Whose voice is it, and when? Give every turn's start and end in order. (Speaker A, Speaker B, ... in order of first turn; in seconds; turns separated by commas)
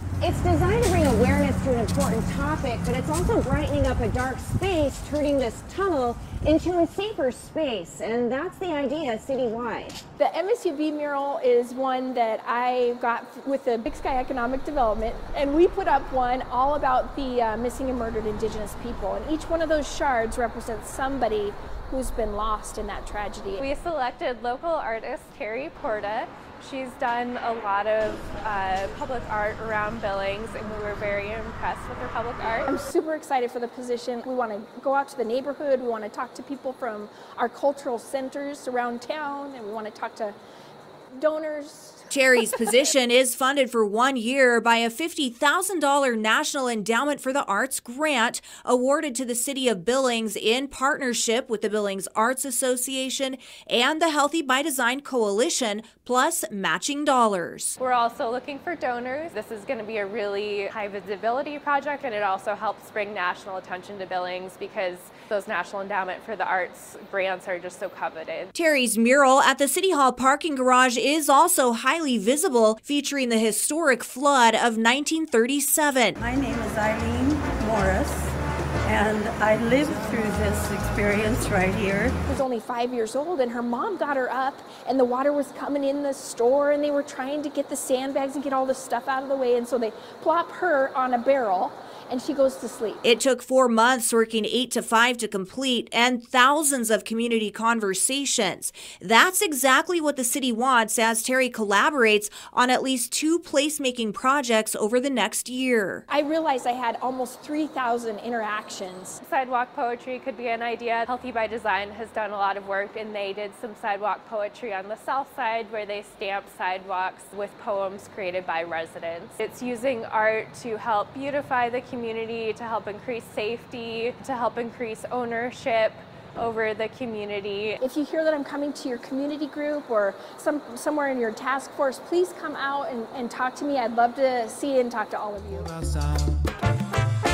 Speaker A: 0.2-10.0, Speaker B: 10.2-23.6, Speaker C: 23.6-32.7, Speaker B: 32.7-40.3, Speaker B: 41.1-42.6, Speaker D: 42.1-57.8, Speaker C: 57.8-68.5, Speaker D: 68.5-76.2, Speaker E: 76.2-82.2, Speaker B: 82.3-93.0, Speaker D: 93.0-106.0, Speaker B: 106.1-109.2, Speaker C: 109.2-127.8, Speaker B: 127.8-135.7